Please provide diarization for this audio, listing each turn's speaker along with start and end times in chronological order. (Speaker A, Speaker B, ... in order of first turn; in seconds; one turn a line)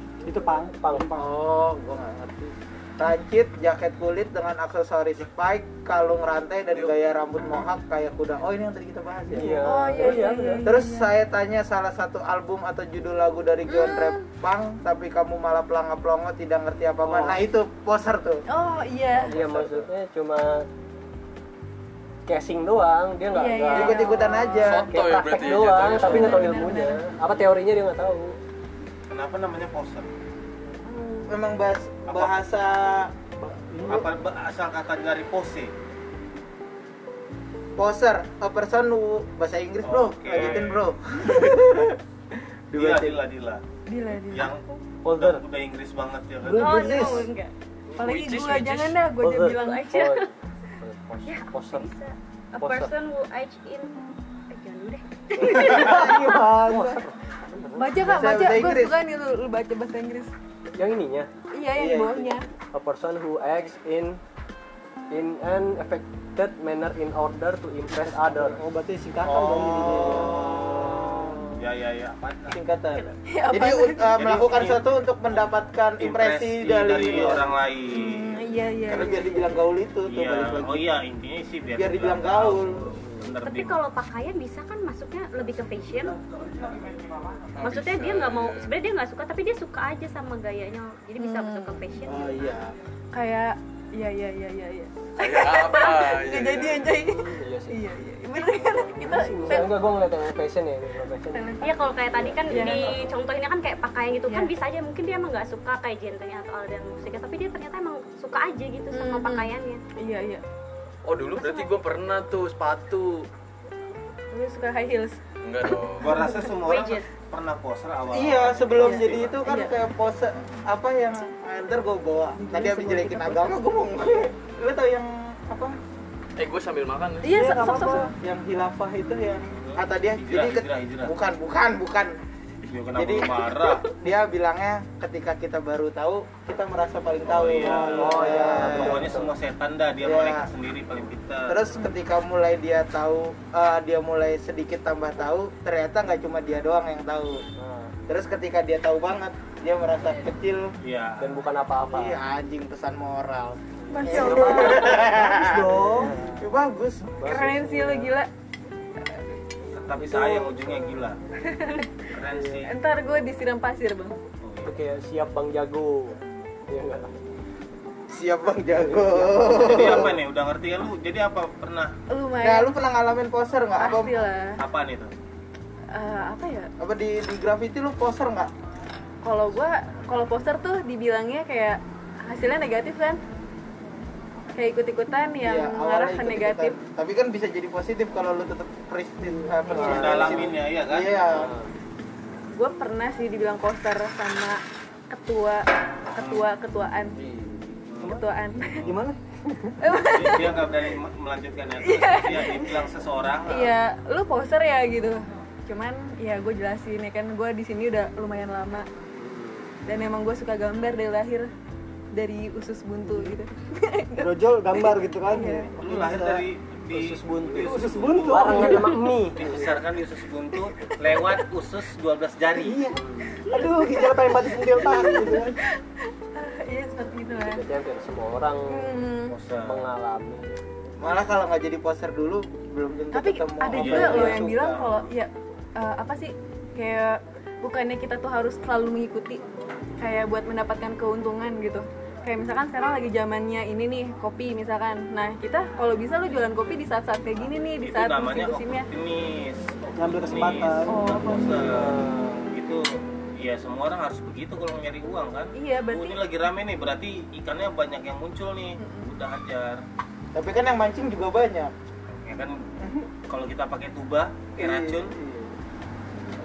Speaker A: 0.2-1.3
Speaker B: 0.8-1.1
Speaker C: 1.1-9.7
Speaker B: 9.3-10.7
Speaker A: 9.4-10.1
Speaker D: 9.6-11.1
Speaker C: 10.6-18.4
Speaker D: 13.7-14.3
Speaker A: 17.0-17.4
Speaker D: 18.5-19.4
Speaker B: 19.2-20.7
Speaker B: 22.3-24.1
Speaker D: 23.3-24.8
Speaker C: 23.7-24.9
Speaker E: 24.6-26.5
Speaker B: 24.9-28.4
Speaker D: 25.8-27.1
Speaker F: 29.1-30.1
Speaker D: 30.9-31.3
Speaker C: 31.3-33.1
Speaker A: 33.4-34.1
Speaker F: 33.9-35.7
Speaker C: 37.8-41.7
Speaker F: 39.9-40.9
Speaker B: 41.3-41.7
Speaker B: 42.7-43.2
Speaker F: 42.7-43.6
Speaker D: 43.9-44.7
Speaker F: 44.3-47.3
Speaker B: 45.0-45.4
Speaker A: 46.4-47.3
Speaker G: 46.5-47.5
Speaker E: 48.0-49.0
Speaker D: 48.0-50.1
Speaker B: 49.2-50.3
Speaker G: 49.5-50.3
Speaker B: 50.8-51.9
Speaker G: 51.3-53.9
Speaker B: 52.6-52.9
Speaker G: 54.5-56.4
Speaker A: 55.4-57.0
Speaker B: 55.9-57.9
Speaker D: 57.8-60.3
Speaker C: 58.0-59.0
Speaker B: 60.7-61.3
Speaker D: 61.5-62.5
Speaker C: 61.8-62.5
Speaker B: 62.7-64.2
Speaker B: 65.1-68.6
Speaker A: 68.2-70.5
Speaker F: 69.2-72.6
Speaker C: 69.7-71.4
Speaker C: 72.5-77.5
Speaker D: 73.2-74.2
Speaker F: 74.2-74.8
Speaker F: 76.0-78.4
Speaker D: 77.9-79.4
Speaker C: 78.9-80.9
Speaker F: 80.0-83.8
Speaker C: 81.7-83.0
Speaker G: 83.4-86.2
Speaker E: 87.5-88.7
Speaker G: 87.6-92.4
Speaker D: 91.2-92.0
Speaker C: 92.0-92.7
Speaker D: 93.1-99.9
Speaker E: 95.2-96.9
Speaker B: 96.9-97.8
Speaker B: 98.9-103.1
Speaker D: 101.3-101.8
Speaker G: 101.6-109.8
Speaker D: 102.5-103.0
Speaker D: 108.9-110.4
Speaker E: 111.0-113.3
Speaker G: 111.3-111.7
Speaker D: 114.3-115.2
Speaker E: 115.4-116.1
Speaker F: 116.0-119.4
Speaker D: 116.2-116.5
Speaker G: 116.6-117.1
Speaker C: 118.1-125.8
Speaker D: 118.8-119.8
Speaker D: 122.5-123.4
Speaker E: 126.4-127.5
Speaker D: 127.2-128.1
Speaker A: 127.2-128.1
Speaker C: 128.2-132.2
Speaker F: 129.5-131.2
Speaker F: 132.7-133.9
Speaker C: 132.9-139.1
Speaker F: 137.2-141.7
Speaker A: 137.6-138.9
Speaker B: 138.0-139.3
Speaker C: 140.0-140.5
Speaker C: 141.5-147.4
Speaker B: 147.6-147.9
Speaker C: 148.1-150.7
Speaker F: 150.8-151.4
Speaker B: 151.2-152.2
Speaker C: 151.9-155.8
Speaker D: 153.9-155.0
Speaker B: 153.9-154.3
Speaker A: 154.2-156.2
Speaker B: 155.8-156.4
Speaker C: 156.4-157.4
Speaker B: 157.2-158.1
Speaker D: 157.2-158.3
Speaker F: 159.7-161.2
Speaker D: 161.4-161.9
Speaker F: 162.1-162.7
Speaker B: 162.4-162.6
Speaker D: 162.7-164.2
Speaker F: 164.4-164.7
Speaker B: 164.7-167.1
Speaker C: 168.1-170.2
Speaker B: 168.8-169.6
Speaker F: 169.5-171.9
Speaker D: 172.1-172.7
Speaker C: 172.4-174.3
Speaker D: 173.8-174.6
Speaker F: 174.6-175.1
Speaker D: 175.9-176.7
Speaker C: 176.8-178.5
Speaker D: 179.2-183.2
Speaker D: 184.6-186.8
Speaker C: 185.4-191.5
Speaker B: 189.7-190.5
Speaker F: 189.7-191.2
Speaker B: 191.3-191.7
Speaker D: 192.5-197.2
Speaker F: 196.2-196.5
Speaker B: 197.2-197.7
Speaker F: 197.9-198.2
Speaker D: 198.0-198.9
Speaker A: 198.8-199.8
Speaker D: 199.8-200.8
Speaker F: 200.0-203.8
Speaker D: 201.8-202.9
Speaker D: 203.5-208.9
Speaker B: 209.2-209.7
Speaker D: 209.8-211.5
Speaker D: 212.1-215.8
Speaker A: 213.1-213.3
Speaker A: 214.2-216.5
Speaker F: 215.8-222.9
Speaker B: 216.9-219.8
Speaker A: 217.6-219.1
Speaker D: 221.1-221.4
Speaker A: 222.6-225.6
Speaker D: 223.3-227.6
Speaker B: 227.4-229.0
Speaker D: 228.7-229.4
Speaker F: 229.3-229.8
Speaker B: 229.6-230.6
Speaker C: 231.0-234.8
Speaker D: 233.1-239.4
Speaker F: 233.7-235.1
Speaker D: 240.0-248.9
Speaker F: 247.8-259.8
Speaker A: 250.0-251.1
Speaker D: 250.9-251.6
Speaker B: 251.6-252.5
Speaker D: 255.5-256.2
Speaker D: 258.8-259.1
Speaker C: 260.3-261.7
Speaker F: 262.2-262.7
Speaker C: 262.8-263.1
Speaker F: 263.3-265.1
Speaker C: 264.6-265.5